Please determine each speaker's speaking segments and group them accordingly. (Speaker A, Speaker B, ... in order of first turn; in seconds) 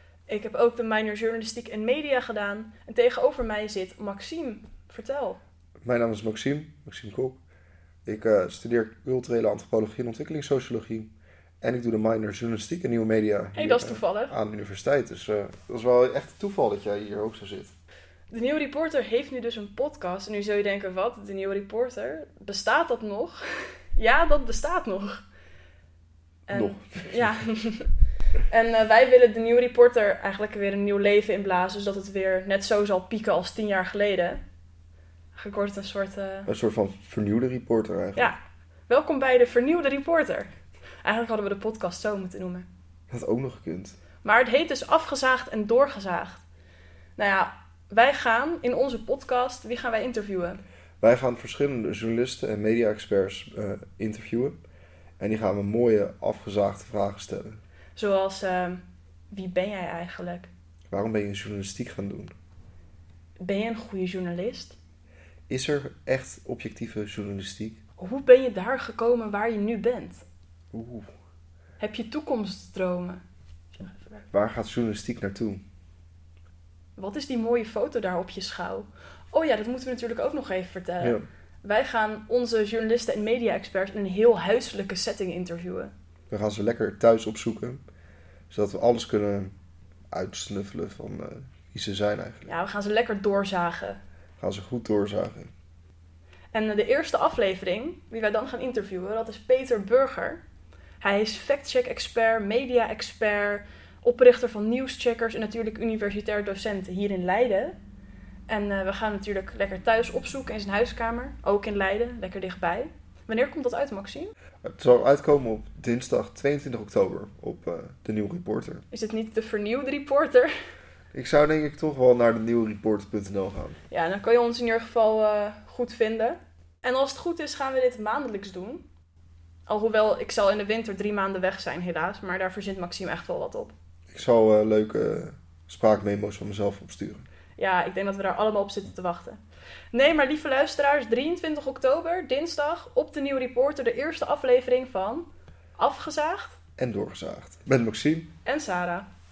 Speaker A: 0.3-5.4, 13.5-14.3, 18.3-23.4, 23.9-25.2, 26.5-27.9, 28.5-34.4, 35.3-36.5, 38.9-40.5, 41.0-42.7, 44.2-46.4, 47.2-50.6, 58.0-60.5, 63.4-64.8, 68.0-70.2, 71.8-73.2, 73.7-74.2, 77.0-85.9, 92.5-94.0, 96.5-100.4, 101.0-107.8, 108.5-114.3, 118.9-120.5, 123.9-128.8, 129.7-133.7, 137.6-139.4, 139.9-146.6, 148.4-149.1
Speaker B: 5.8-7.4, 8.1-17.7, 26.5-27.4, 36.5-38.3, 43.1-44.0, 51.0-54.6, 55.2-57.6, 60.9-62.3, 65.5-67.8, 70.7-71.1, 74.3-75.6, 81.0-81.2, 86.3-87.8, 88.5-89.5, 90.1-92.5, 94.4-95.5, 114.6-118.8, 121.1-123.8, 134.1-137.2, 146.8-148.3